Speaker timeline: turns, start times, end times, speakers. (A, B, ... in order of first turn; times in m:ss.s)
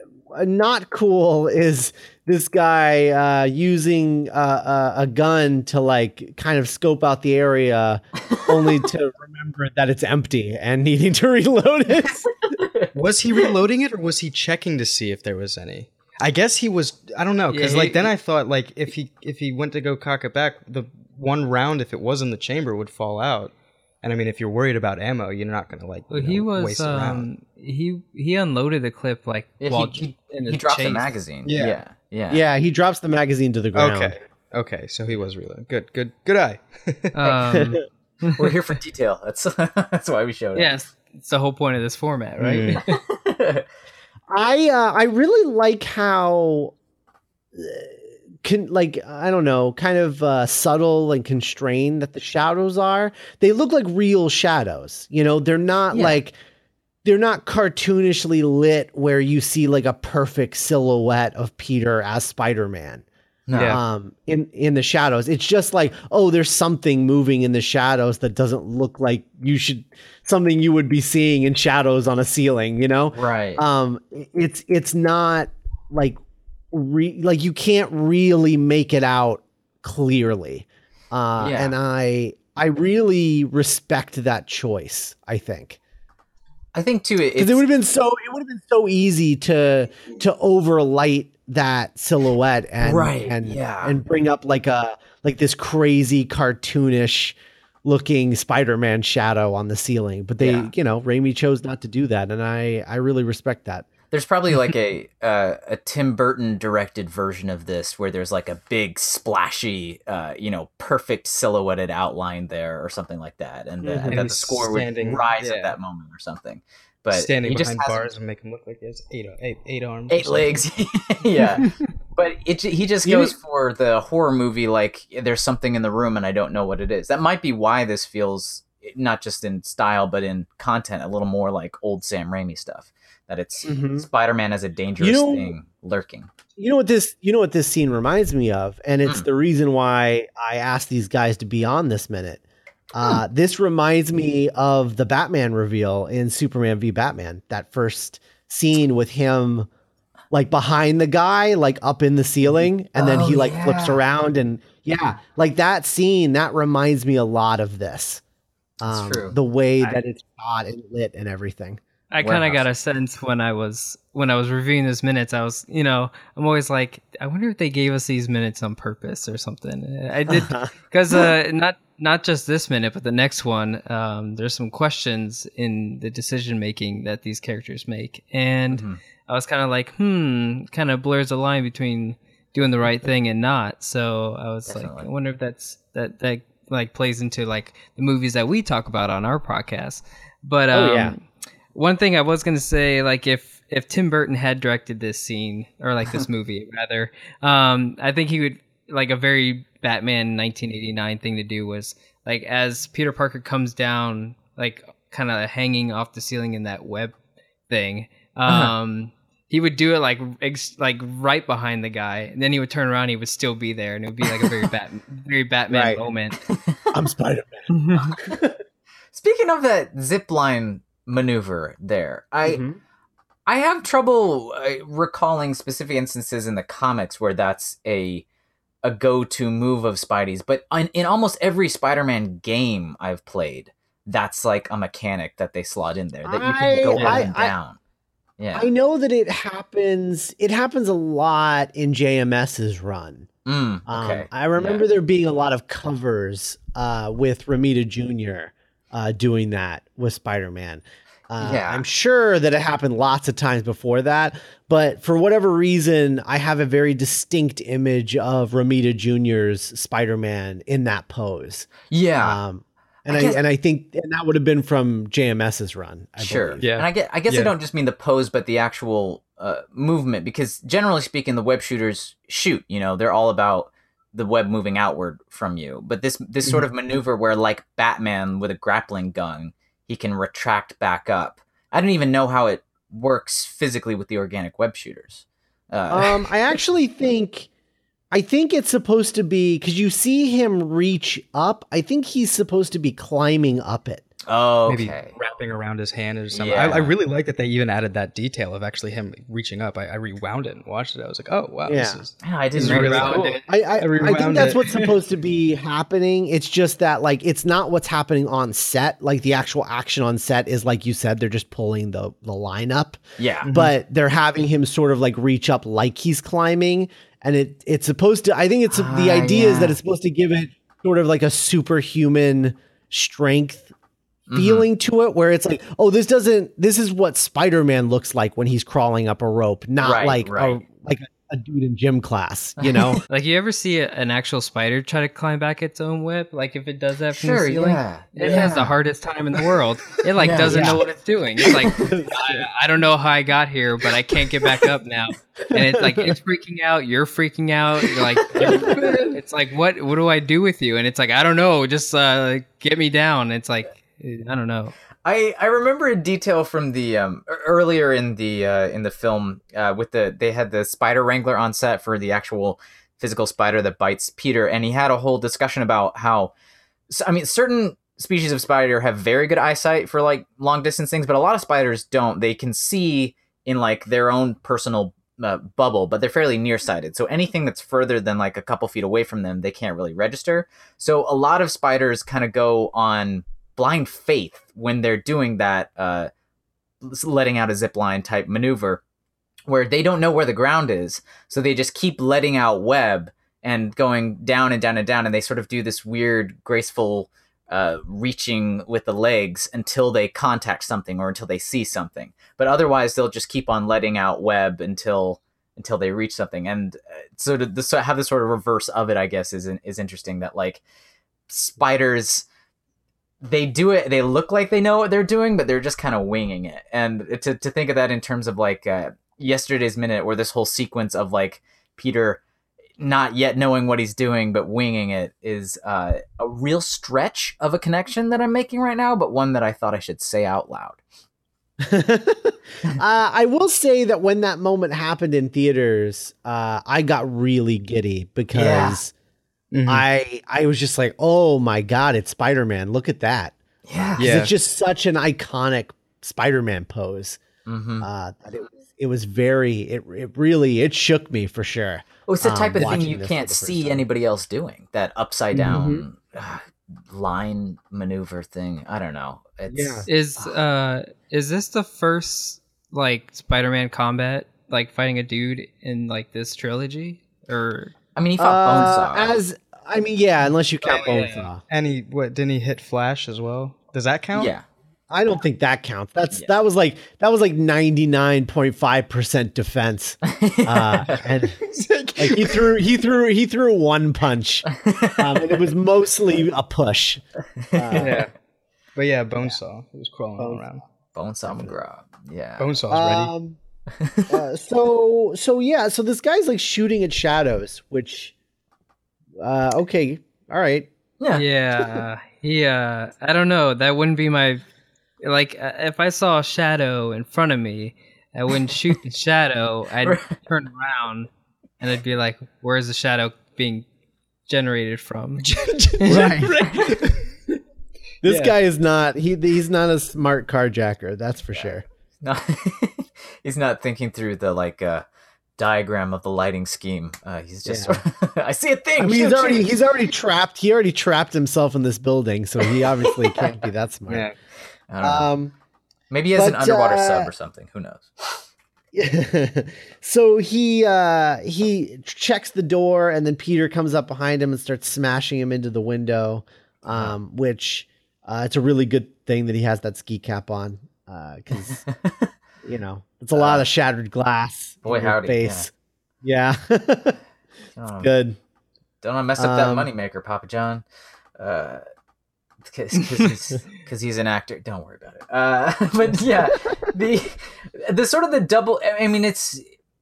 0:00.3-0:12.3 A
0:08.4-0:08.7 B
0:12.5-0:12.9 B
0:12.9-0:27.3 C
0:17.5-0:18.1 D
0:26.1-0:31.1 D
0:29.6-0:32.4 B
0:31.4-0:31.8 C
0:32.3-0:34.2 A
0:33.8-0:37.1 C
0:37.1-0:38.5 D
0:37.5-0:37.8 A
0:38.3-0:40.8 B
0:40.6-0:43.0 D
0:42.4-0:42.8 C
0:42.9-0:43.6 B
0:44.3-0:46.8 A
0:47.6-0:56.4 A
0:55.9-0:56.2 B
0:57.0-1:03.0 A
1:03.5-1:03.8 B
1:03.5-1:03.8 C
1:03.6-1:16.2 A
1:13.1-1:13.6 B
1:16.7-1:25.8 A
1:21.4-1:21.7 B
1:26.7-1:27.6 B
1:27.4-1:43.9 A
1:32.8-1:33.9 B
1:40.4-1:40.7 B
1:44.1-1:58.0 B
1:53.8-1:54.3 A
1:54.1-1:55.8 C
1:57.1-2:00.6 C
2:00.1-2:16.3 B
2:13.6-2:14.1 A
2:15.0-2:15.6 A
2:16.6-2:29.7 A
2:30.3-2:38.2 A
2:33.0-2:34.0 B
2:38.8-2:41.8 A
2:38.9-2:39.4 B
2:42.1-3:11.2 D
2:42.2-2:42.6 B
2:50.3-2:50.7 A
2:58.7-2:59.0 B
3:04.7-3:05.1 B
3:10.7-3:11.2 A
3:11.7-3:27.2 D
3:27.7-3:36.4 D
3:28.5-3:28.7 B
3:35.7-3:36.0 A
3:36.5-3:36.8 B
3:36.9-3:38.6 A
3:37.7-3:38.1 D
3:38.1-3:38.4 B
3:39.1-3:42.6 B
3:42.4-3:42.8 A
3:43.5-3:48.2 B
3:48.8-3:57.8 B
3:56.3-3:57.6 A
3:57.0-3:57.2 C
3:58.4-3:58.7 B
3:58.5-4:03.3 A
4:03.5-4:04.8 B
4:03.9-4:26.6 A
4:11.4-4:11.8 B
4:21.9-4:22.4 B
4:23.1-4:23.4 B
4:26.2-4:46.3 B
4:26.6-4:27.5 C
4:45.9-4:47.5 A
4:48.1-4:54.1 A
4:54.3-4:55.1 B
4:54.7-5:04.9 C
4:56.3-4:57.0 B
5:01.6-5:02.0 A
5:02.2-5:03.4 B
5:02.6-5:03.5 D
5:03.4-5:23.7 A
5:04.0-5:04.6 D
5:13.2-5:13.5 B
5:13.4-5:13.7 C
5:18.7-5:19.8 B
5:24.3-5:24.7 B
5:24.4-5:33.0 A
5:29.8-5:30.6 B
5:33.1-5:54.8 D
5:37.2-5:38.8 B
5:40.2-5:40.8 B
5:40.5-5:40.8 A
5:41.6-5:42.0 B
5:41.8-5:42.3 A
5:45.6-5:46.1 A
5:48.4-5:48.9 A
5:55.0-6:06.3 B
6:06.9-6:26.1 B
6:26.8-6:28.8 B
6:29.5-6:50.6 B
6:51.3-6:52.3 B
6:53.2-7:02.2 B
7:02.8-7:10.8 B
7:11.6-7:18.9 A
7:18.3-7:18.8 B
7:19.5-7:19.9 C
7:19.7-7:23.4 A
7:23.7-7:24.1 B
7:24.0-7:27.2 A
7:24.0-7:24.3 C
7:27.5-7:27.9 B
7:27.8-7:33.8 A
7:32.1-7:40.3 B
7:35.5-7:35.8 A
7:39.5-7:39.9 A
7:39.9-7:47.7 D
7:48.0-7:49.2 B
7:48.2-7:51.4 A
7:50.6-7:51.3 D
7:51.5-7:54.3 C
7:54.1-7:54.4 B
7:54.9-8:01.4 A
8:00.0-8:01.1 B
8:01.5-8:02.5 C
8:02.0-8:07.0 A
8:04.5-8:05.1 B
8:07.4-8:08.0 B
8:07.5-8:08.1 A
8:07.7-8:08.1 C
8:08.8-8:10.6 C
8:10.2-8:10.4 A
8:11.0-8:12.5 B
8:11.3-8:11.6 A
8:12.4-8:13.1 C
8:12.7-8:13.4 A
8:13.8-8:14.1 B
8:14.1-8:18.1 A
8:19.2-8:20.7 A
8:21.0-8:21.8 B
8:21.1-8:24.4 D
8:25.0-8:31.1 D
8:29.8-8:30.1 B
8:31.6-8:33.7 D
8:34.3-8:35.3 D
8:35.2-8:37.1 C
8:35.8-8:36.7 A
8:38.0-8:41.7 A
8:38.1-8:38.3 C
8:42.0-8:44.8 B
8:45.4-8:49.5 B
8:47.5-8:47.8 A
8:48.8-8:54.1 A
8:53.0-8:53.4 B
8:53.9-8:54.1 C
8:54.7-8:55.1 B
8:54.8-8:55.3 A
8:55.9-8:58.3 B
8:56.1-8:57.1 A
8:58.7-9:11.6 A
9:06.7-9:07.0 B
9:11.7-9:12.1 B
9:12.4-9:15.5 A
9:13.2-9:13.5 B
9:14.6-9:15.5 B
9:16.0-9:17.0 A
9:17.6-9:17.9 B
9:17.8-9:18.2 A
9:18.8-9:20.6 B
9:19.2-9:19.7 A
9:21.2-9:21.6 B
9:22.4-9:29.4 B